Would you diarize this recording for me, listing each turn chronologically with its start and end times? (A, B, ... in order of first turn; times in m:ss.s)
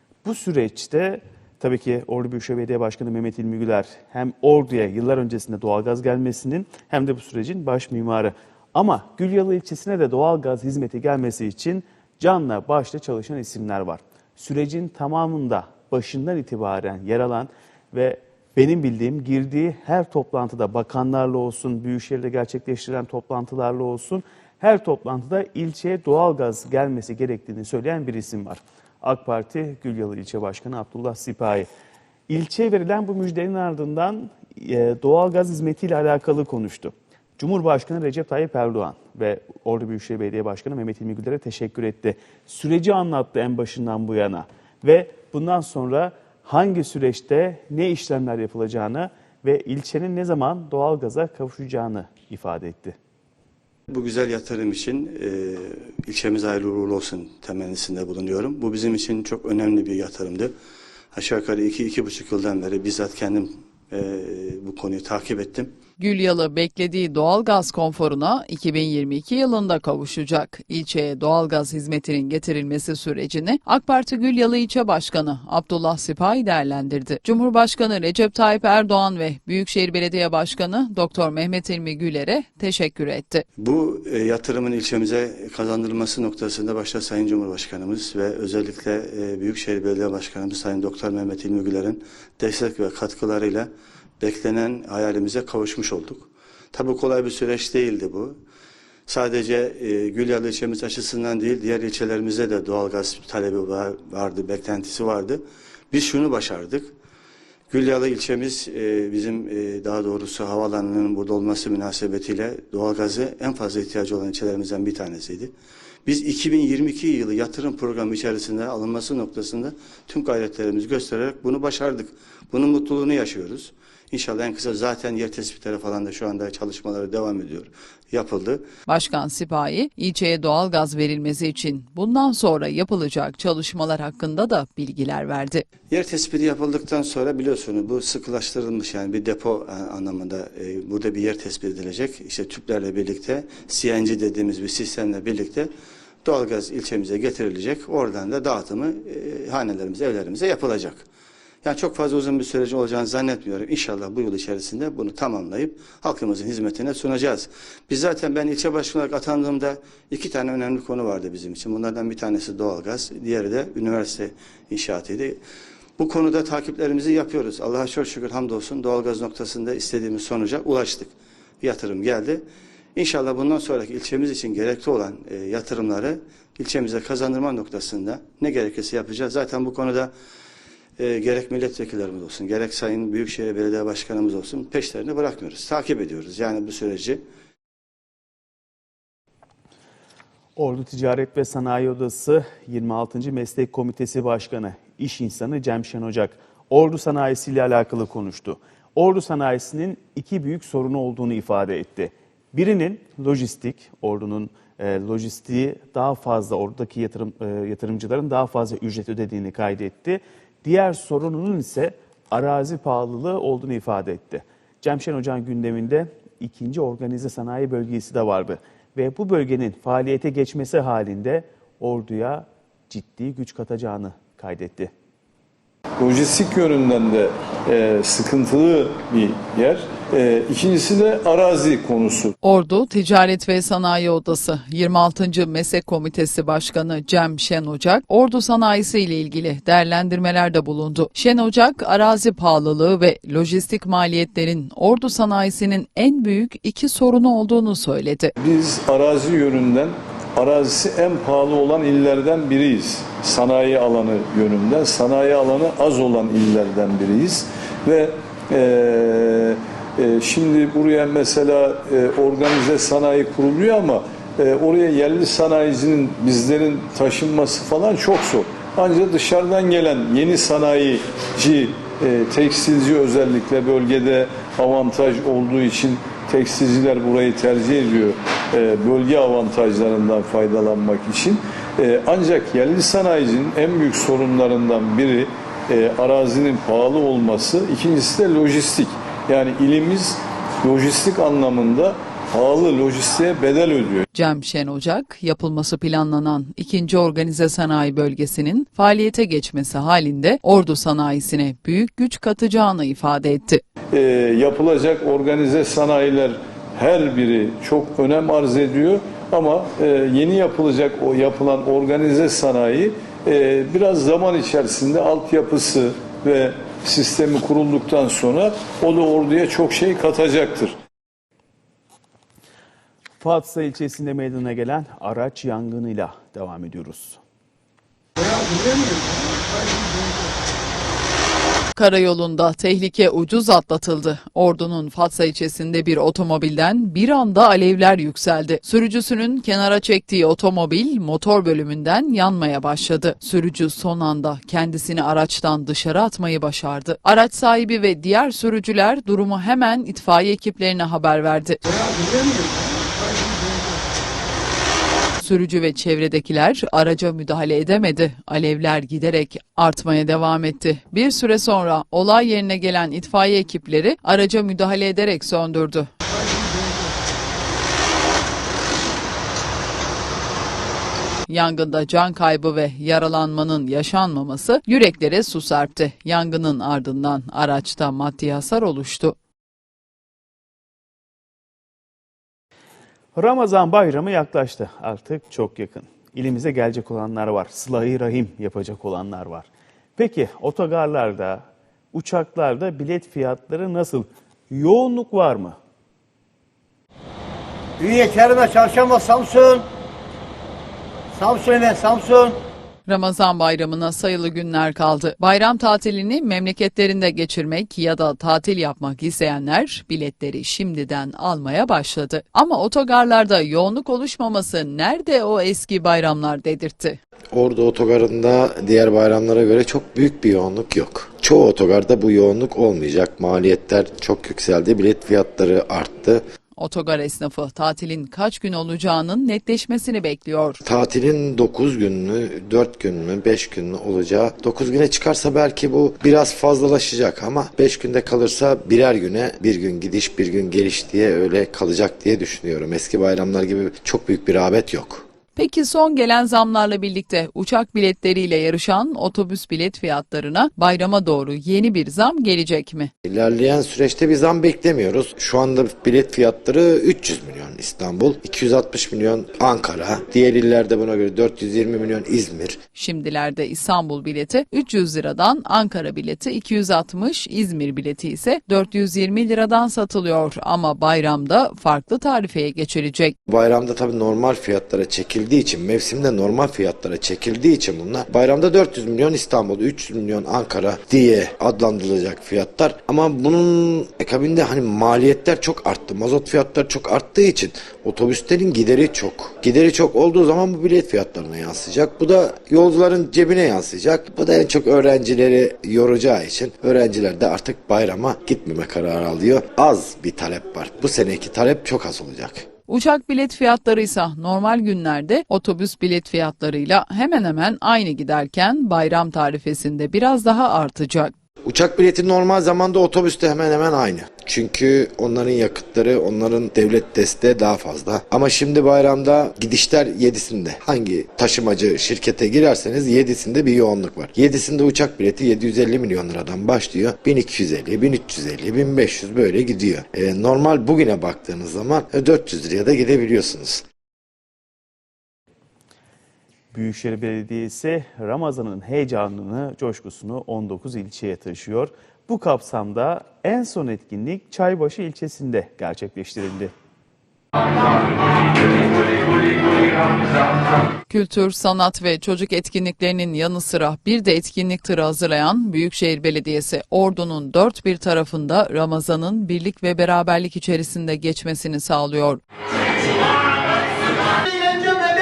0:00.2-0:31.7 A
0:32.3-0:53.0 A
0:53.9-1:00.5 B
1:01.1-1:05.7 B
1:06.0-1:23.4 C
1:23.6-1:38.4 B
1:39.1-1:46.9 B
1:47.7-1:55.5 B
1:56.1-2:08.7 B
2:08.9-2:15.6 C
2:15.9-2:25.7 B
2:26.2-2:31.1 B
2:31.6-2:45.4 B
2:46.0-2:52.4 B
2:53.0-3:00.1 B
3:01.0-3:07.2 B
3:10.6-3:44.9 A
3:46.0-3:52.4 D
3:52.4-4:08.3 C
4:08.4-4:54.1 D
4:54.1-5:03.6 C
5:03.9-5:20.8 D
5:23.2-5:27.2 A
5:31.8-5:51.6 C
5:55.2-6:05.9 C
6:11.3-6:19.2 C
6:23.1-6:35.6 A
6:37.8-6:39.6 E
6:41.2-6:42.4 E
6:42.9-6:57.0 C
6:57.3-7:06.2 F
7:06.6-7:10.6 C
7:10.6-7:25.1 F
7:25.4-7:32.9 C
7:33.0-7:42.6 F
7:42.8-7:53.2 C
7:53.3-8:22.5 F
8:22.7-8:31.1 C
8:31.4-8:53.6 F
8:56.5-9:06.5 A
9:10.9-9:22.2 C